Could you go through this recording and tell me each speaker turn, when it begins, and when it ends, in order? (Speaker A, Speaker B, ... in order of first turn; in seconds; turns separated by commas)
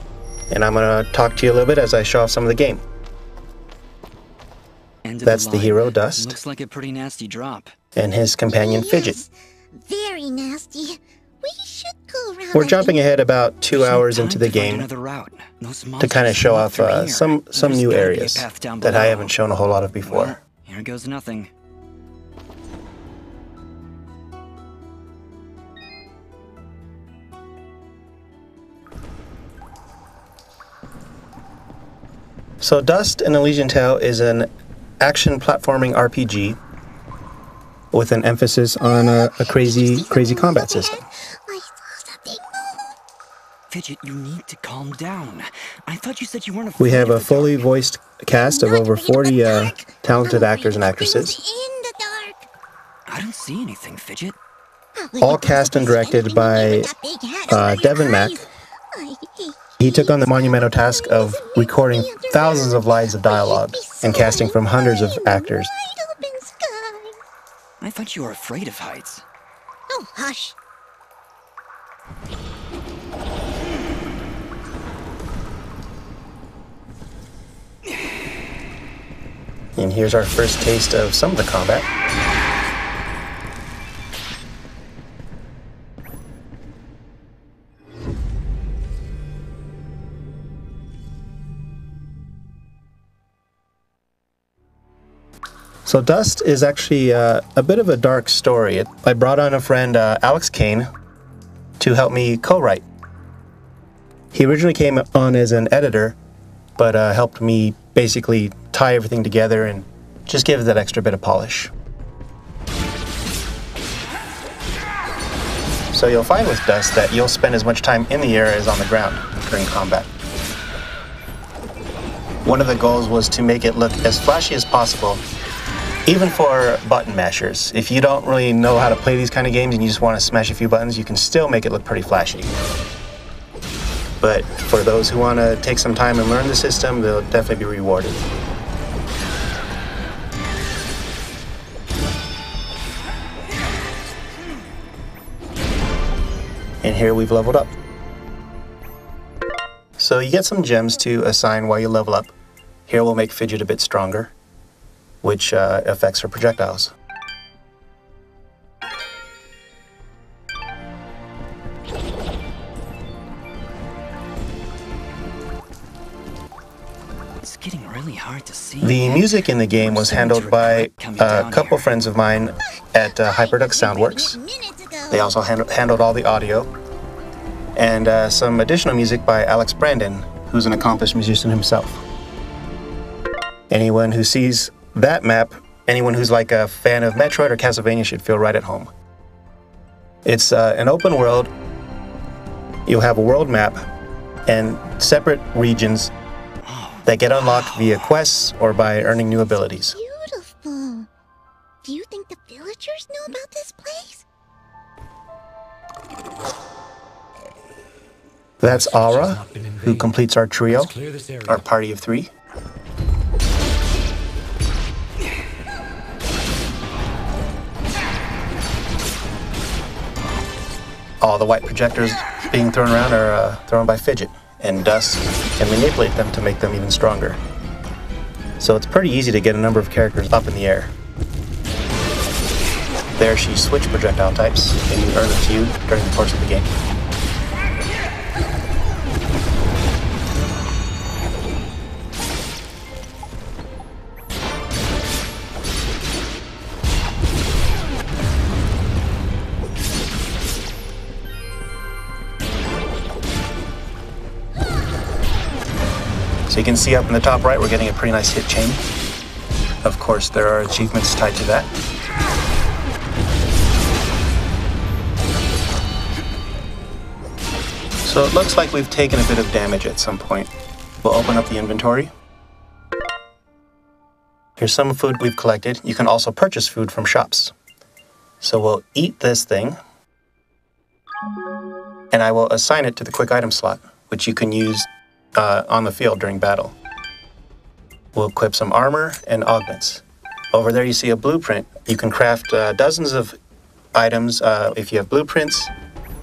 Speaker A: 0.5-2.8, Speaker B: 5.0-7.7, Speaker A: 5.2-6.4, Speaker A: 8.0-9.2, Speaker C: 8.5-13.0, Speaker A: 12.5-14.9, Speaker B: 13.7-19.4, Speaker A: 16.0-20.4, Speaker B: 20.0-21.5, Speaker A: 32.6-34.5, Speaker A: 35.0-36.6, Speaker A: 37.9-41.0, Speaker C: 38.8-42.9, Speaker B: 43.7-47.6, Speaker A: 46.8-51.4, Speaker C: 48.4-52.5, Speaker B: 53.1-54.4, Speaker C: 55.0-67.2, Speaker A: 55.2-56.9, Speaker A: 57.5-58.5, Speaker A: 59.8-65.7, Speaker B: 67.8-69.2, Speaker C: 69.9-70.6, Speaker A: 79.8-81.9, Speaker A: 95.8-100.9, Speaker A: 101.8-102.8, Speaker A: 104.3-106.2, Speaker A: 106.8-111.7, Speaker A: 115.9-120.1, Speaker A: 122.4-125.2, Speaker A: 126.1-132.5, Speaker A: 134.2-138.2, Speaker A: 146.8-147.7, Speaker A: 150.0-152.3, Speaker A: 152.9-154.3, Speaker A: 155.2-156.9, Speaker B: 167.4-172.0, Speaker A: 168.8-174.4, Speaker C: 173.0-175.3, Speaker A: 175.1-176.7, Speaker A: 177.8-182.0, Speaker A: 183.7-188.9, Speaker A: 190.2-191.5, Speaker A: 192.9-193.8, Speaker A: 194.5-196.1, Speaker B: 196.7-198.1, Speaker A: 197.0-200.0, Speaker C: 199.1-201.1, Speaker C: 201.8-204.2, Speaker A: 208.6-210.9, Speaker D: 208.6-210.2, Speaker D: 210.7-211.6, Speaker A: 211.5-212.3, Speaker A: 221.2-227.4, Speaker A: 228.6-230.9, Speaker A: 233.2-236.7, Speaker A: 256.5-258.8, Speaker A: 259.8-261.7, Speaker A: 268.0-270.5, Speaker A: 271.0-272.1, Speaker A: 274.6-277.5, Speaker A: 278.4-279.8, Speaker A: 282.1-286.8, Speaker A: 288.1-293.4, Speaker A: 293.9-295.7